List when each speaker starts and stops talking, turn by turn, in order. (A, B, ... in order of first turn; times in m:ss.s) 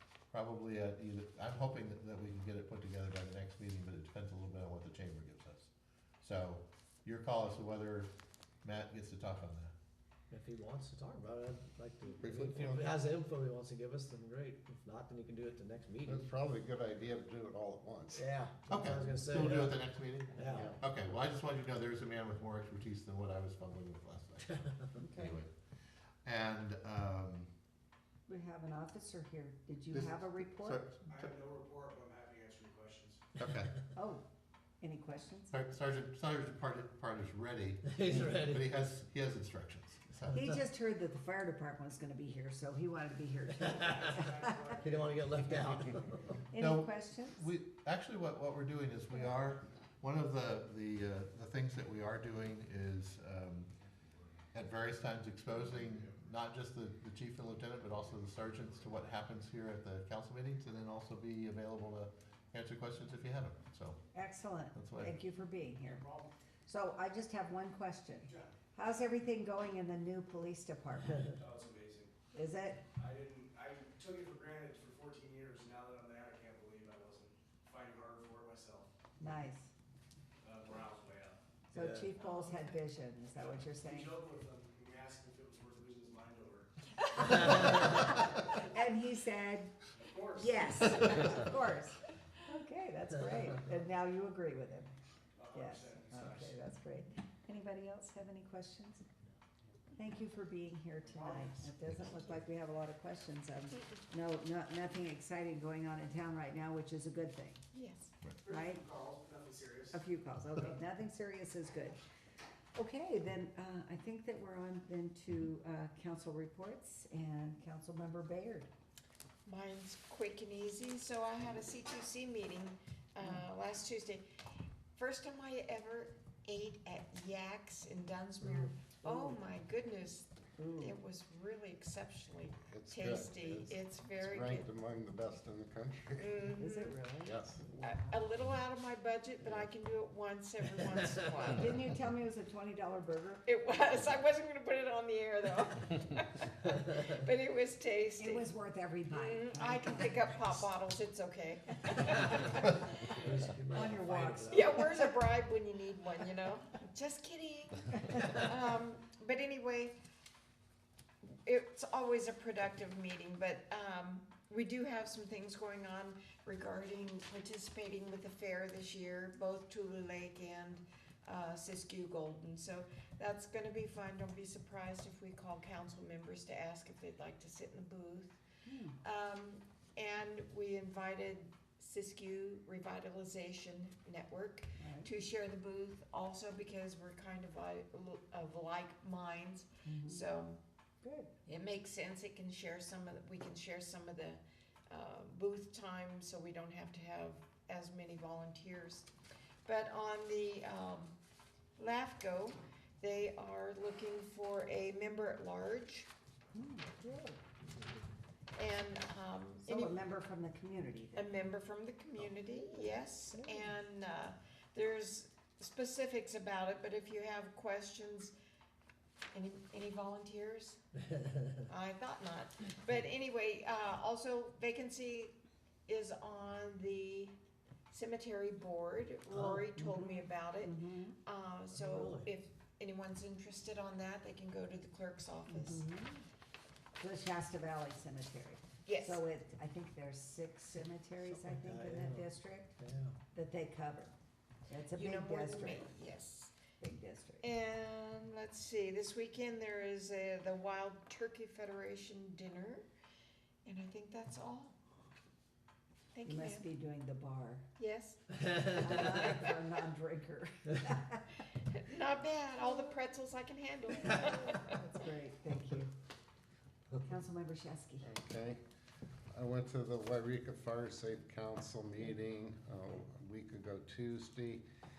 0:00.3-0:08.1 A
0:08.6-0:09.7 A
0:10.3-0:16.2 B
0:12.2-0:12.9 A
0:16.1-0:18.2 C
0:18.1-0:19.8 B
0:18.7-0:25.5 A
0:20.4-0:20.7 B
0:25.0-0:25.4 D
0:26.2-0:27.5 A
0:28.3-0:30.9 D
0:29.9-0:31.3 A
0:31.1-0:33.2 E
0:33.4-0:33.8 A
0:34.0-0:34.2 D
0:34.8-0:35.5 D
0:35.5-0:40.5 A
0:37.9-0:38.6 B
0:40.3-0:44.7 D
0:43.7-0:44.1 B
0:43.8-0:46.0 E
0:44.8-0:46.4 B
0:46.5-0:47.4 D
0:46.6-0:53.7 A
0:54.5-1:04.0 A
1:04.1-1:06.1 D
1:04.7-1:05.1 A
1:05.8-1:06.3 E
1:06.7-1:11.3 D
1:08.2-1:08.5 E
1:11.4-1:12.1 E
1:12.3-1:12.8 D
1:13.0-1:18.9 E
1:19.2-1:19.7 D
1:20.4-1:21.4 E
1:21.7-1:24.1 D
1:21.7-1:22.1 B
1:22.2-1:22.8 F
1:23.3-1:26.7 E
1:27.3-1:29.8 D
1:27.4-1:27.8 E
1:27.5-1:27.8 B
1:30.0-1:31.3 E
1:30.4-1:34.9 D
1:35.4-1:36.6 E
1:35.5-1:39.0 D
1:39.9-1:47.6 D
1:41.0-1:42.2 E
1:43.7-1:44.0 F
1:47.7-1:48.1 F
1:48.4-1:50.0 E
1:48.5-1:48.9 D
1:49.9-1:52.0 D
1:52.8-1:58.7 D
1:59.5-2:04.3 F
2:05.0-2:14.7 F
2:09.0-2:09.4 D
2:10.6-2:11.0 D
2:12.7-2:16.4 C
2:16.2-2:17.0 F
2:16.5-2:18.2 D
2:17.2-2:17.6 C
2:17.8-2:21.7 F
2:21.5-2:23.4 D
2:23.5-2:28.5 F
2:28.2-2:30.4 D
2:29.1-2:33.0 F
2:32.2-2:34.8 B
2:33.6-2:35.2 D
2:34.5-2:39.9 F
2:41.2-2:58.4 F
2:58.6-2:59.0 D
2:59.0-3:10.6 F
3:04.8-3:05.1 D
3:09.8-3:10.3 D
3:11.0-3:11.3 D
3:11.5-3:19.1 F
3:19.6-3:21.2 F
3:21.8-3:26.1 F
3:26.5-3:27.4 D
3:28.6-3:30.0 F
3:29.6-3:31.3 D
3:31.1-3:38.3 F
3:33.4-3:33.6 D
3:39.3-3:40.8 F
3:41.7-3:45.4 F
3:45.9-3:47.4 F
3:47.9-3:55.8 F
3:49.7-3:51.2 D
3:51.7-3:52.3 B
3:55.5-3:56.2 D
3:57.0-4:02.8 D
3:58.9-3:59.2 F
4:01.2-4:03.2 B
4:03.3-4:04.1 D
4:04.7-4:05.9 D
4:04.9-4:06.6 F
4:06.8-4:07.4 D
4:07.4-4:12.9 F
4:13.6-4:14.8 F
4:16.1-4:16.6 F
4:16.3-4:17.7 D
4:17.8-4:19.1 F
4:18.4-4:19.0 B
4:18.7-4:21.4 D
4:21.7-4:24.7 F
4:24.0-4:25.9 D
4:27.0-4:28.1 D
4:28.0-4:28.6 C
4:29.3-4:34.6 C